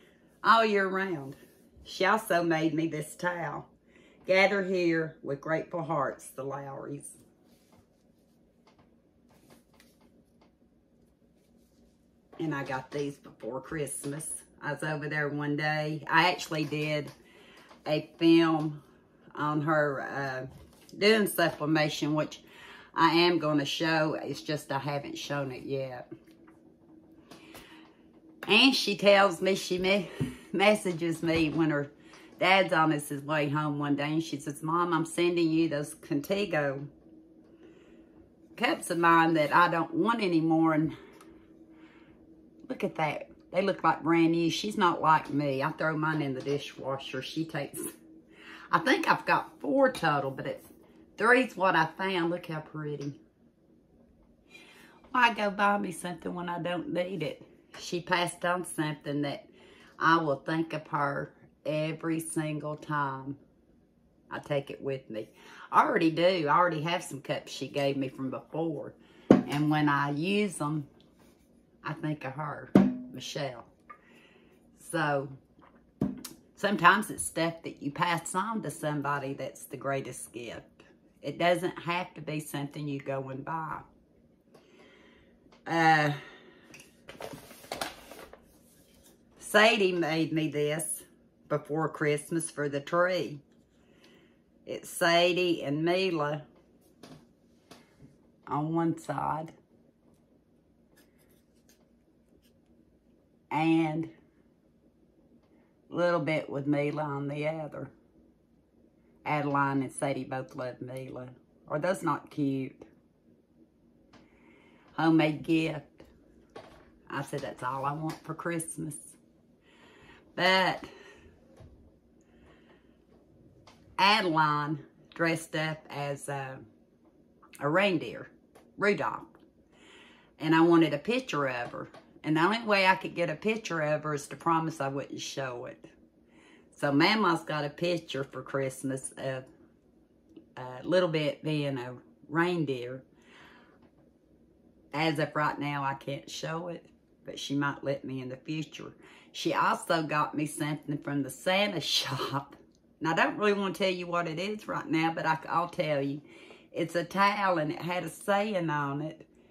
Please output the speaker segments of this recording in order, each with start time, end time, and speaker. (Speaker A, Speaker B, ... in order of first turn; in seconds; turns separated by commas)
Speaker A: 0.4-3.7, Speaker A: 4.2-7.2, Speaker A: 12.4-17.1, Speaker A: 17.8-18.8, Speaker A: 19.3-22.4, Speaker A: 22.9-26.0, Speaker A: 28.4-36.9, Speaker A: 38.5-41.0, Speaker A: 42.6-47.9, Speaker A: 48.7-53.2, Speaker A: 55.1-63.4, Speaker A: 64.3-70.9, Speaker A: 71.8-73.7, Speaker A: 74.7-75.3, Speaker A: 76.5-83.8, Speaker A: 85.7-86.2, Speaker A: 89.4-93.4, Speaker A: 94.7-96.4, Speaker A: 98.5-99.5, Speaker A: 103.5-104.1, Speaker A: 105.9-107.9, Speaker A: 109.2-112.8, Speaker A: 114.9-116.1, Speaker A: 117.1-119.2, Speaker A: 120.3-120.9, Speaker A: 124.0-126.6, Speaker A: 127.6-129.4, Speaker A: 130.4-135.9, Speaker A: 136.7-139.5, Speaker A: 140.6-143.0, Speaker A: 144.9-159.3